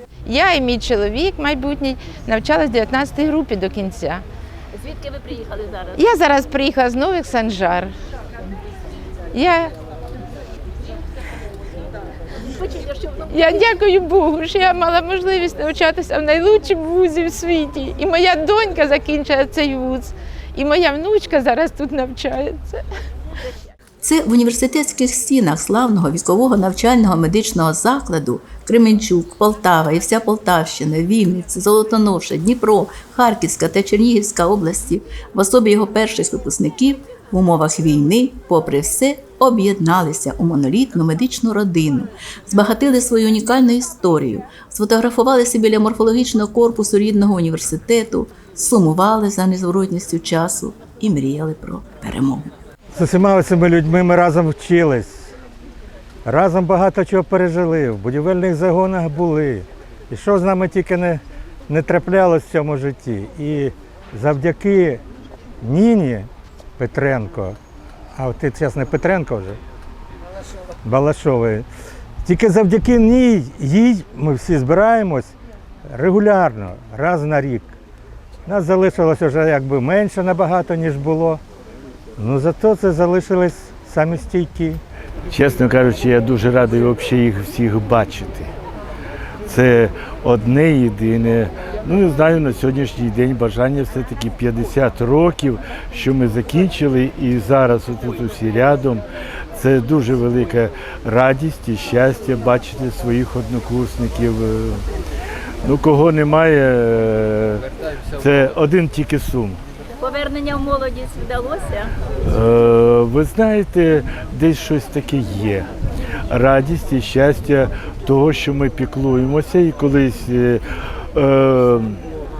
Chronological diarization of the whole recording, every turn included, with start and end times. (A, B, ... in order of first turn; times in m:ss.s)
0:00.2-0:04.2 A
0:04.8-0:07.9 A
0:09.3-0:09.7 A
0:12.5-0:22.8 A
0:24.0-0:52.5 B
0:52.9-0:55.3 C
0:56.2-1:05.0 C
1:05.6-1:07.6 C
1:08.1-1:09.6 C
1:10.8-1:11.7 C
1:12.2-1:15.3 C
1:15.9-1:17.7 C
1:18.4-1:21.4 C
1:22.2-1:24.8 C
1:25.3-1:28.5 D
1:29.5-1:39.0 D
1:39.5-1:44.8 D
1:45.6-1:47.6 D
1:48.1-1:49.6 D
1:50.0-1:51.8 A
1:52.2-1:55.7 D
1:56.3-2:00.6 D
2:01.1-2:02.0 D